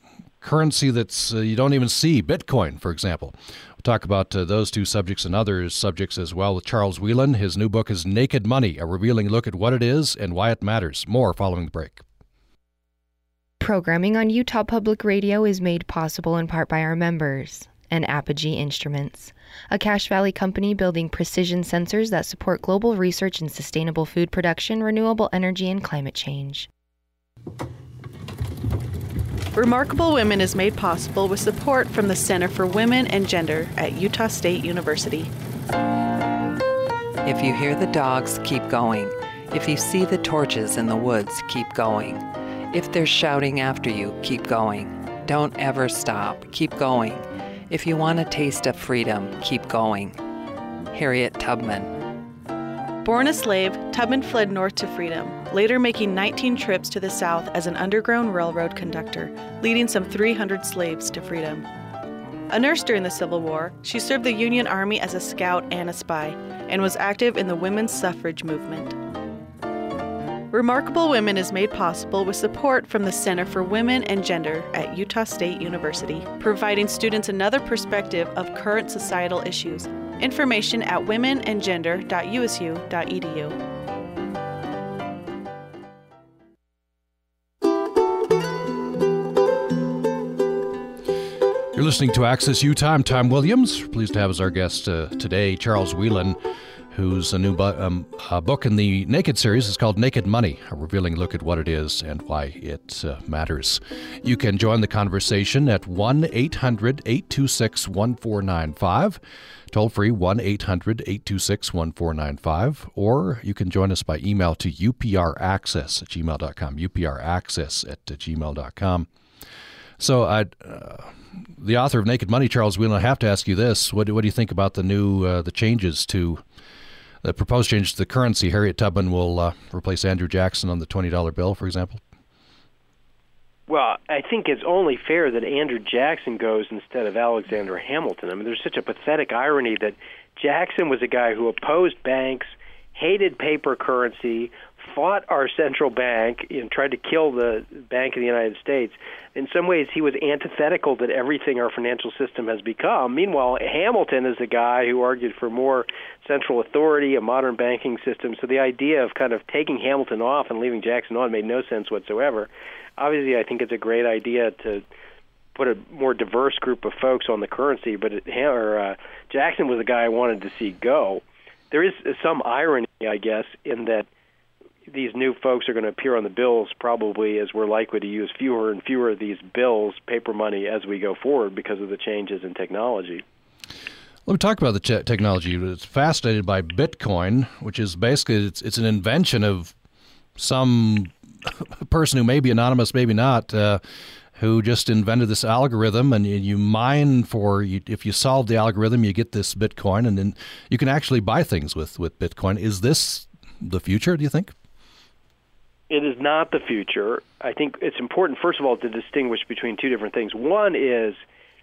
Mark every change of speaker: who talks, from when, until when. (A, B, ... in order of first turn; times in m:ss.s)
0:00.4-0:12.0 A
0:13.6-0:26.7 B
0:29.5-0:35.3 C
0:37.2-0:50.2 D
0:50.9-0:51.9 D
0:53.0-1:01.6 C
1:02.5-1:09.0 C
1:10.5-1:23.6 C
1:31.8-1:36.4 A
1:36.9-1:49.2 A
1:49.7-1:59.1 A
2:00.0-2:06.4 A
2:07.2-2:12.0 A
2:13.7-2:44.8 E
2:45.5-2:54.1 E
2:54.9-3:03.2 E
3:04.2-3:09.7 A
3:10.4-3:13.8 A
3:14.4-3:24.5 A
3:25.9-3:31.2 E